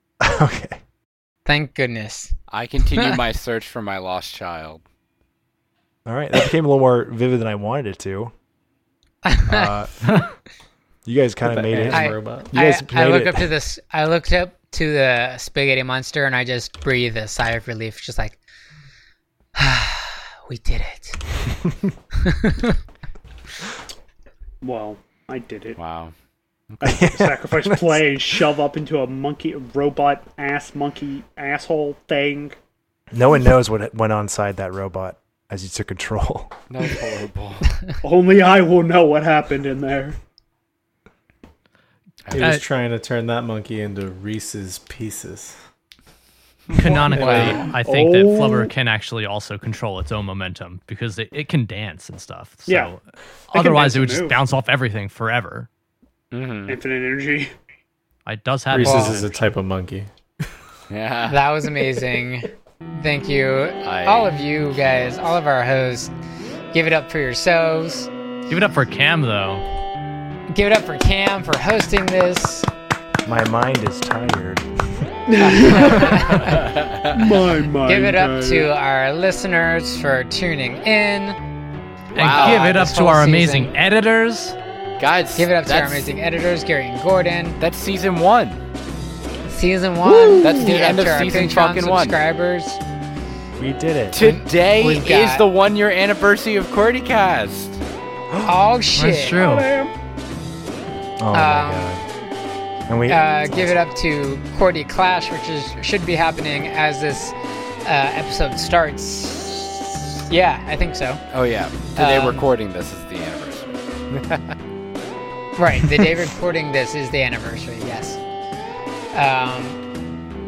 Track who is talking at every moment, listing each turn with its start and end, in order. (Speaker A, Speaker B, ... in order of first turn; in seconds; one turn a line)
Speaker A: 0.2-0.8
Speaker B: 1.4-2.3
Speaker C: 2.5-4.8
Speaker A: 6.0-8.3
Speaker B: 9.2-9.7
Speaker A: 9.5-10.0
Speaker D: 10.1-10.3
Speaker A: 11.0-13.5
Speaker E: 11.4-12.5
Speaker B: 11.9-18.4
Speaker B: 19.6-21.2
Speaker B: 22.2-22.8
Speaker F: 24.6-25.8
Speaker C: 25.8-26.1
Speaker C: 26.7-27.0
Speaker F: 26.8-32.6
Speaker A: 26.8-28.4
Speaker A: 33.1-36.5
Speaker C: 36.7-37.8
Speaker F: 38.0-40.2
Speaker C: 42.2-42.6
Speaker E: 42.3-45.5
Speaker D: 42.4-42.6
Speaker D: 46.7-55.7
Speaker F: 46.7-48.7
Speaker E: 47.1-47.8
Speaker F: 52.7-52.9
Speaker F: 53.5-54.5
Speaker C: 56.3-56.8
Speaker F: 56.7-57.5
Speaker D: 58.2-59.4
Speaker E: 58.7-60.1
Speaker B: 58.8-59.2
Speaker C: 60.9-61.4
Speaker B: 61.3-66.1
Speaker C: 63.8-64.3
Speaker B: 66.7-68.1
Speaker D: 68.5-69.6
Speaker B: 70.5-72.7
Speaker A: 73.2-74.7
Speaker F: 75.3-78.7
Speaker B: 75.4-76.5
Speaker C: 76.4-77.4
Speaker B: 77.8-81.4
Speaker D: 82.1-84.6
Speaker C: 82.2-82.8
Speaker B: 82.2-83.7
Speaker C: 85.0-86.1
Speaker B: 85.3-87.6
Speaker C: 87.6-88.6
Speaker B: 89.5-92.8
Speaker F: 90.1-90.7
Speaker C: 90.4-92.2
Speaker A: 93.6-94.2
Speaker C: 94.1-97.8
Speaker B: 94.2-95.5
Speaker B: 98.4-99.4
Speaker D: 98.9-99.7
Speaker A: 101.2-102.0
Speaker B: 101.3-101.9
Speaker A: 102.9-103.8
Speaker B: 103.1-107.3
Speaker B: 107.8-111.2
Speaker C: 111.3-114.6
Speaker B: 112.0-112.5
Speaker B: 115.6-118.2
Speaker B: 119.1-119.8